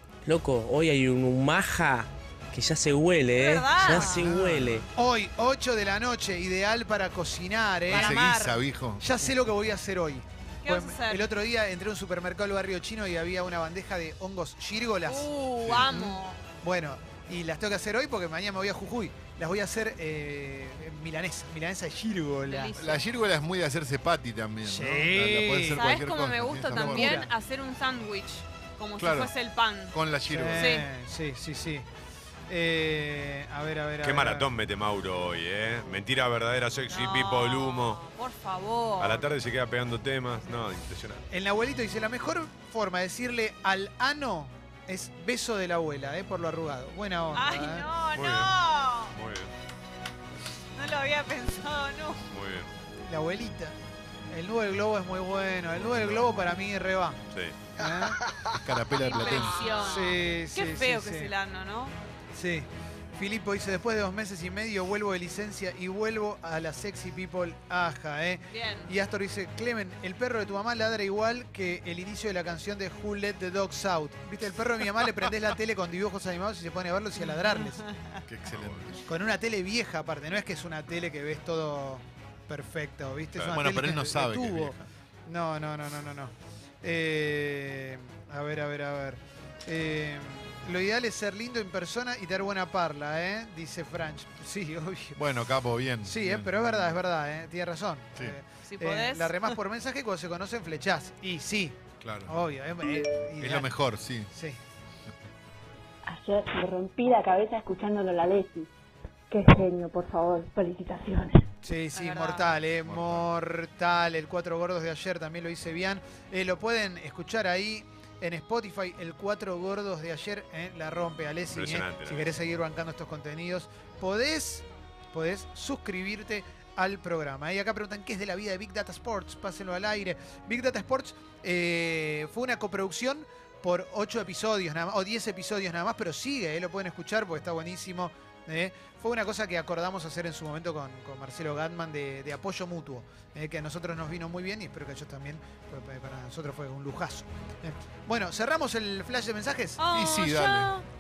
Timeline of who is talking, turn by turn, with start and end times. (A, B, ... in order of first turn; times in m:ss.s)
0:00.2-0:04.9 A
0:03.3-0:04.3 B
0:03.9-0:08.2 C
0:04.2-0:04.8 D
0:07.9-0:09.2 D
0:07.9-0:08.6 B
0:09.0-0:15.3 C
0:10.6-0:11.3 B
0:15.1-0:16.4 B
0:15.6-0:15.9 D
0:15.9-0:22.7 C
0:22.4-0:23.0 B
0:22.8-0:27.2 D
0:24.6-0:25.8 C
0:25.8-0:30.0 B
0:26.7-0:27.3 C
0:29.0-0:29.3 D
0:29.9-0:30.8 D
0:30.3-0:31.9 C
0:30.5-0:30.9 B
0:32.5-0:34.5 C
0:34.0-0:38.0 E
0:36.9-0:39.3 B
0:39.0-0:41.2 E
0:41.3-0:47.9 C
0:47.3-0:49.1 B
0:48.1-0:48.6 E
0:49.1-0:49.5 E
0:50.8-0:52.3 B
0:52.3-0:52.7 E
0:53.1-0:53.8 C
0:54.3-0:57.2 C
0:55.8-0:56.4 D
0:57.3-0:57.6 E
0:57.8-0:58.2 C
0:58.5-0:59.8 D
0:59.0-1:02.0 B
0:59.8-1:01.3 C
1:02.3-1:17.8 C
1:08.5-1:08.9 B
1:17.2-1:18.2 B
1:18.3-1:19.0 D
1:18.5-1:18.9 E
1:19.1-1:35.2 C
1:23.5-1:24.9 D
1:35.2-1:37.0 D
1:36.0-1:43.8 C
1:38.6-1:39.5 B
1:42.0-1:42.4 D
1:43.4-1:44.3 D
1:44.3-1:44.6 C
1:46.0-1:48.7 F
1:49.3-1:51.5 F
1:51.6-2:29.8 C
1:52.0-1:52.6 B
1:52.8-1:53.3 D
2:01.5-2:02.4 E
2:29.8-2:30.9 B
2:29.9-2:30.7 D